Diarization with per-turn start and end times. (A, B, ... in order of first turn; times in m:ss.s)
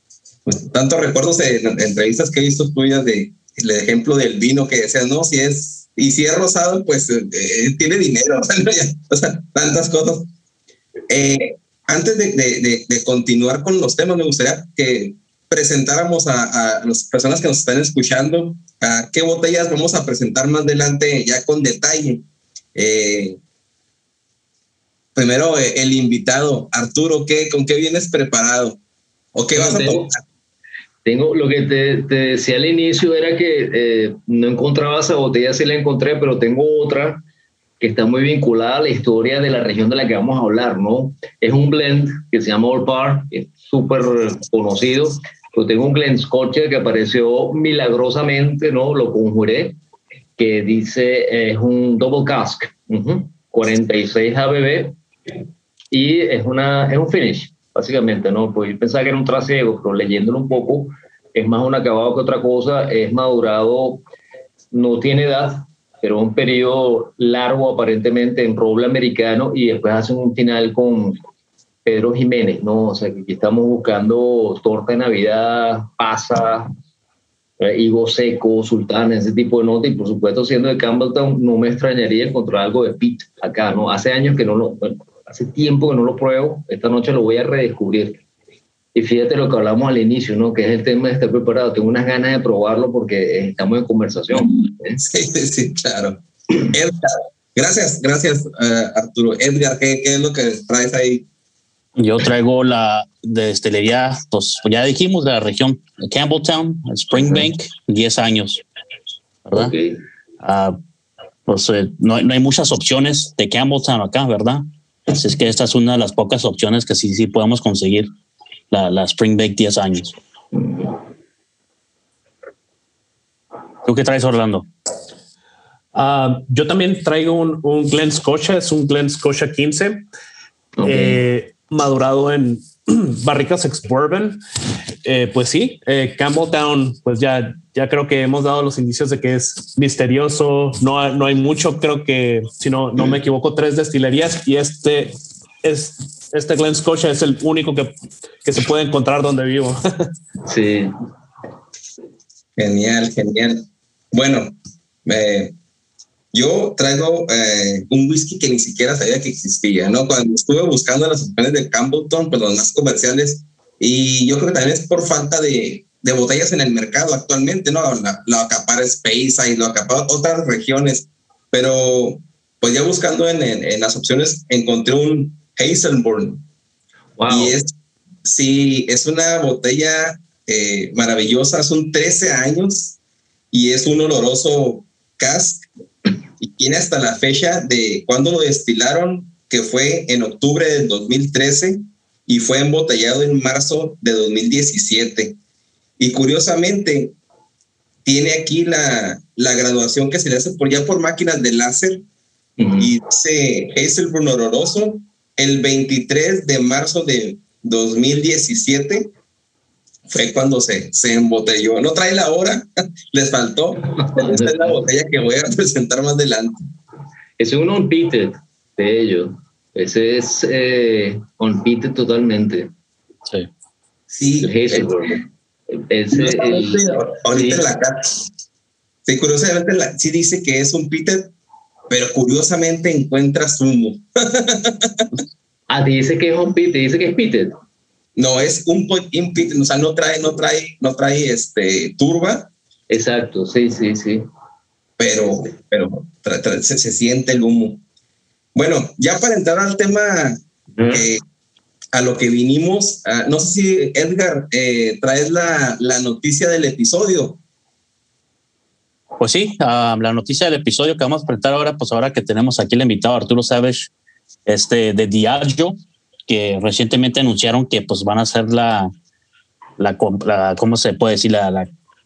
0:00.4-0:10.3 A
0:11.1-0:22.2 A
0:22.7-0:23.4 A
0:25.1-0:28.8 A
0:29.3-0:30.2 A
0:29.5-0:30.1 B
0:31.0-0:37.2 B
0:37.8-0:49.8 B
0:50.4-0:55.0 B
0:55.9-1:04.0 B
1:04.7-1:11.2 B
1:11.8-1:16.7 B
1:17.6-1:28.2 B
1:28.9-1:35.0 B
1:35.0-1:37.0 A
1:37.5-1:41.2 A
1:42.0-1:48.6 C
1:49.5-1:50.0 B
1:50.4-1:50.7 C
1:51.5-1:58.1 C
1:58.7-2:00.2 C
2:00.5-2:00.9 B
2:03.8-2:04.7 C
2:05.9-2:10.0 D
2:10.8-2:11.2 B
2:10.8-2:14.4 D
2:15.0-2:27.9 D
2:28.4-2:30.1 D
2:30.4-2:30.9 B
2:32.6-2:34.5 A
2:35.0-2:35.5 A
2:36.3-2:56.4 A
2:57.2-2:57.6 B
2:57.3-2:57.7 A
2:58.2-3:03.0 A
3:03.5-3:05.6 A
3:06.4-3:15.4 A
3:16.0-3:17.1 A
3:18.0-3:22.0 A
3:22.6-3:22.9 B
3:22.8-3:29.1 A
3:30.1-3:36.6 A
3:34.0-3:34.8 B
3:37.4-3:42.7 B
3:44.1-3:44.9 A
3:44.4-3:47.6 B
3:46.1-3:48.3 A
3:49.0-3:51.3 A
3:51.9-3:55.1 A
3:55.7-3:57.6 B
3:58.2-4:02.5 A
4:02.9-4:04.2 B
4:05.0-4:07.8 A
4:08.5-4:11.2 A
4:10.8-4:11.1 B
4:11.9-4:17.4 A
4:19.2-4:23.9 C
4:24.5-4:25.7 C
4:26.3-4:28.9 C
4:29.8-4:31.7 C